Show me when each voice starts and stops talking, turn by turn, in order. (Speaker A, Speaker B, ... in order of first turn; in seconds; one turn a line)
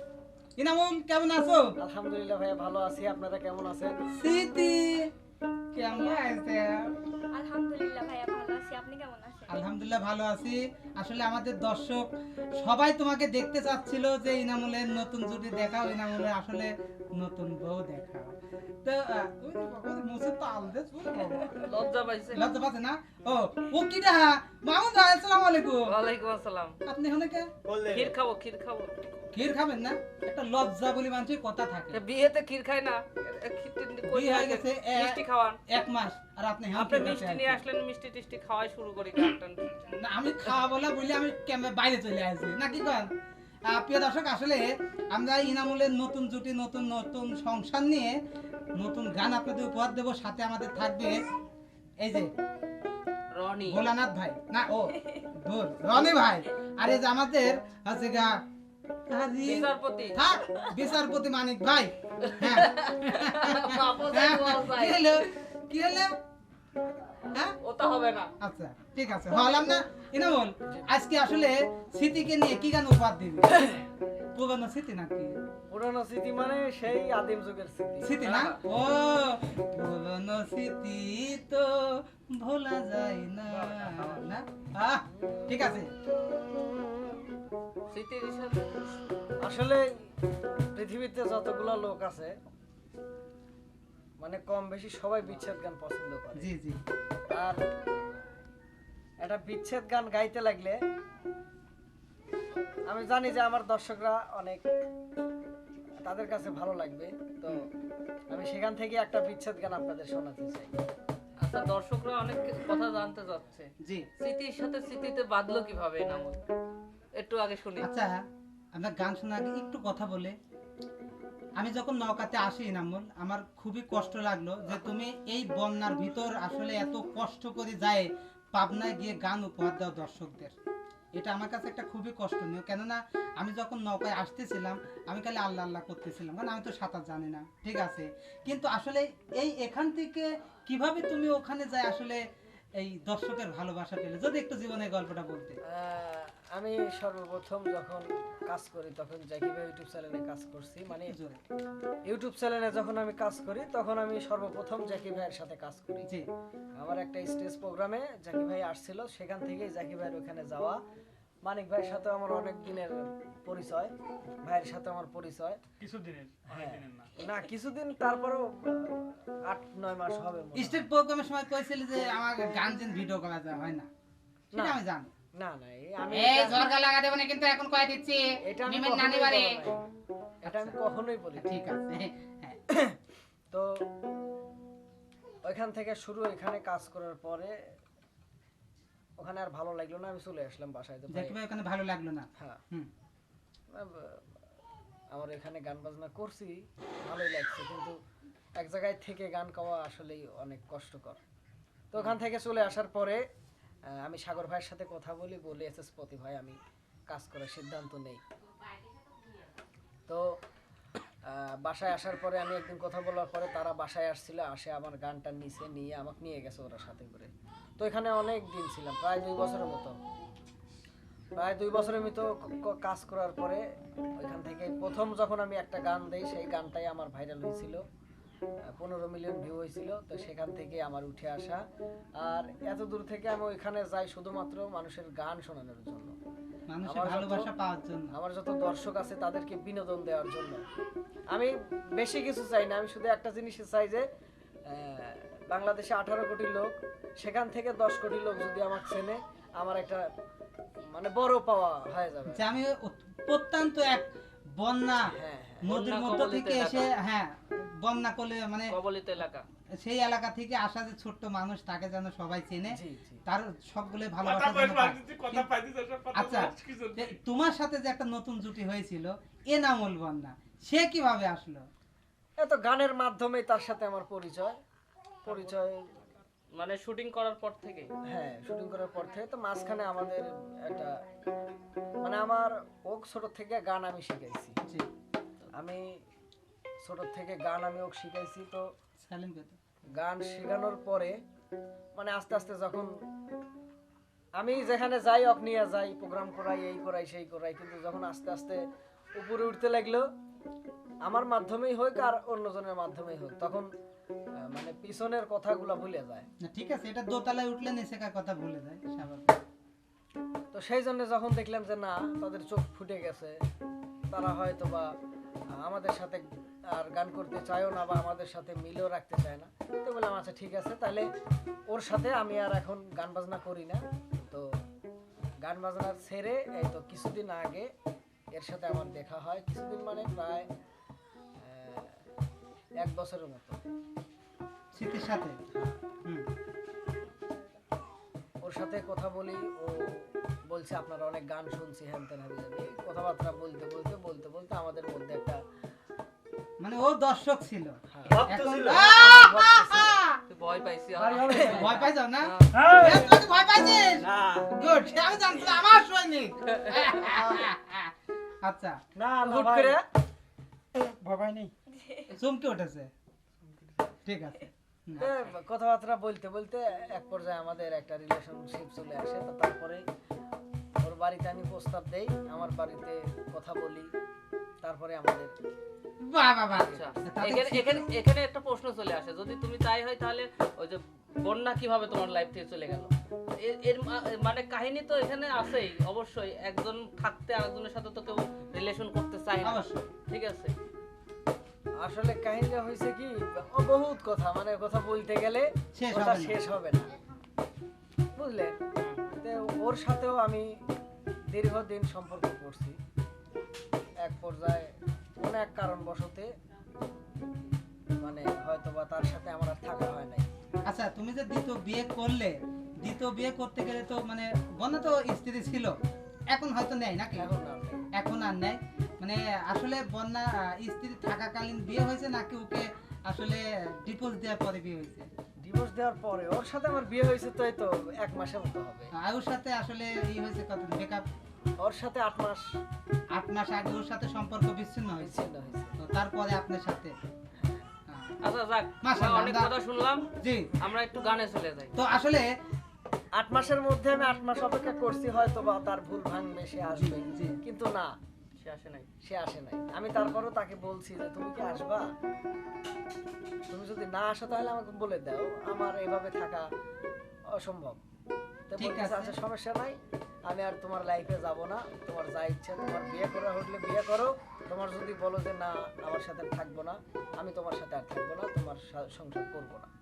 Speaker A: 0.6-1.6
Speaker B: 1.8-3.9
Speaker A: 4.2-4.9
Speaker A: 5.7-6.8
Speaker C: 5.8-6.4
Speaker C: 7.3-9.6
Speaker A: 9.5-12.0
Speaker A: 12.6-21.7
Speaker D: 21.6-22.5
Speaker A: 22.3-25.9
Speaker D: 25.9-26.8
Speaker A: 26.9-27.4
Speaker E: 27.7-28.1
Speaker D: 27.9-29.0
Speaker A: 29.3-32.0
Speaker D: 31.9-35.6
Speaker A: 34.1-37.6
Speaker D: 36.7-39.7
Speaker A: 39.9-43.1
Speaker A: 43.7-48.1
Speaker A: 48.8-51.2
Speaker A: 52.0-52.3
Speaker D: 53.3-53.8
Speaker A: 53.7-58.3
Speaker A: 59.1-66.1
Speaker D: 59.4-60.2
Speaker D: 62.2-65.2
Speaker D: 67.6-68.3
Speaker A: 68.4-73.6
Speaker A: 74.3-75.3
Speaker B: 75.7-78.2
Speaker A: 78.0-81.7
Speaker D: 78.2-78.6
Speaker A: 82.4-85.9
Speaker B: 83.5-84.1
Speaker B: 85.1-85.5
Speaker D: 87.9-88.6
Speaker B: 89.4-89.9
Speaker B: 90.7-92.3
Speaker B: 94.2-96.5
Speaker A: 96.4-96.8
Speaker B: 97.3-97.6
Speaker B: 99.2-100.8
Speaker B: 102.9-104.6
Speaker B: 106.0-107.6
Speaker B: 108.3-110.7
Speaker D: 111.4-116.4
Speaker D: 117.2-117.9
Speaker A: 117.8-118.1
Speaker A: 118.8-120.3
Speaker A: 121.6-130.5
Speaker A: 131.2-142.2
Speaker A: 142.8-145.6
Speaker B: 145.7-151.1
Speaker A: 150.9-151.4
Speaker B: 152.1-156.1
Speaker B: 156.8-160.8
Speaker B: 161.4-163.9
Speaker B: 164.4-165.6
Speaker E: 165.8-167.1
Speaker B: 166.5-170.9
Speaker A: 170.6-173.9
Speaker B: 174.5-174.8
Speaker A: 174.5-175.1
Speaker B: 175.3-176.6
Speaker A: 176.1-179.5
Speaker B: 178.4-179.8
Speaker A: 180.4-180.8
Speaker B: 180.4-181.6
Speaker A: 181.4-182.6
Speaker B: 182.7-183.0
Speaker B: 185.4-187.7
Speaker B: 189.2-191.4
Speaker A: 191.1-192.9
Speaker B: 193.7-194.3
Speaker B: 195.1-197.9
Speaker B: 198.6-201.2
Speaker B: 201.9-203.2
Speaker B: 203.9-206.6
Speaker B: 207.1-208.2
Speaker B: 211.3-219.9
Speaker B: 221.3-223.6
Speaker B: 224.2-227.8
Speaker B: 228.7-231.6
Speaker B: 232.2-236.1
Speaker A: 236.7-238.1
Speaker B: 236.8-237.5
Speaker B: 238.1-240.6
Speaker B: 241.3-244.0
Speaker B: 244.7-250.1
Speaker B: 250.8-252.5
Speaker A: 252.3-254.1
Speaker A: 254.6-255.1
Speaker B: 255.1-255.7
Speaker A: 255.6-258.7
Speaker D: 255.7-256.9
Speaker D: 258.7-259.4
Speaker A: 259.8-262.8
Speaker B: 262.7-263.2
Speaker A: 263.3-265.5
Speaker E: 264.2-267.1
Speaker A: 266.1-271.6
Speaker B: 272.4-274.6
Speaker B: 275.2-275.9
Speaker D: 275.2-275.5
Speaker D: 276.6-277.9
Speaker B: 278.1-281.0
Speaker B: 282.0-284.6
Speaker B: 285.5-286.0
Speaker B: 286.8-288.6
Speaker A: 289.0-289.6
Speaker B: 289.9-291.2
Speaker B: 291.9-292.9
Speaker B: 294.4-298.6
Speaker B: 299.1-300.1
Speaker B: 301.0-303.7
Speaker B: 304.4-306.3
Speaker A: 306.4-309.3
Speaker B: 310.5-313.4
Speaker B: 314.1-314.9
Speaker B: 315.5-321.1
Speaker B: 321.7-324.4
Speaker B: 325.4-327.7
Speaker B: 328.3-330.5
Speaker B: 331.4-332.0
Speaker B: 332.8-333.6
Speaker A: 334.7-335.4
Speaker B: 338.4-345.4
Speaker A: 346.6-350.2
Speaker B: 347.9-350.0
Speaker E: 348.1-348.9
Speaker D: 350.3-352.6
Speaker B: 351.0-351.8
Speaker A: 351.5-357.9
Speaker E: 352.5-353.1
Speaker E: 354.0-354.5
Speaker B: 357.0-357.4
Speaker A: 358.4-358.8
Speaker B: 359.1-359.8
Speaker E: 359.3-359.7
Speaker C: 361.7-362.1
Speaker A: 362.1-362.9
Speaker A: 364.1-365.1
Speaker B: 365.0-369.8
Speaker B: 370.8-373.9
Speaker B: 374.6-375.3
Speaker A: 376.0-377.8
Speaker D: 376.6-390.5
Speaker A: 389.4-389.9
Speaker B: 391.8-396.9
Speaker A: 395.7-396.3
Speaker B: 398.1-398.6
Speaker D: 398.8-399.0
Speaker B: 399.2-400.5
Speaker B: 401.3-402.8
Speaker B: 404.0-406.3
Speaker B: 408.0-410.3
Speaker A: 410.7-415.7
Speaker A: 416.3-417.3
Speaker B: 417.1-417.9
Speaker A: 417.9-425.1
Speaker B: 425.4-428.9
Speaker A: 429.0-431.0
Speaker B: 431.6-432.4
Speaker A: 433.1-435.1
Speaker B: 435.0-435.8
Speaker A: 435.8-436.9
Speaker B: 437.4-437.6
Speaker A: 437.9-438.1
Speaker D: 438.2-440.1
Speaker A: 438.8-439.5
Speaker A: 440.2-440.5
Speaker D: 440.6-441.7
Speaker A: 441.8-442.3
Speaker B: 443.1-447.9
Speaker A: 446.7-447.4
Speaker D: 448.4-448.9
Speaker B: 449.0-451.9
Speaker B: 453.5-456.4
Speaker B: 457.3-457.8
Speaker B: 458.5-469.7
Speaker A: 458.6-459.1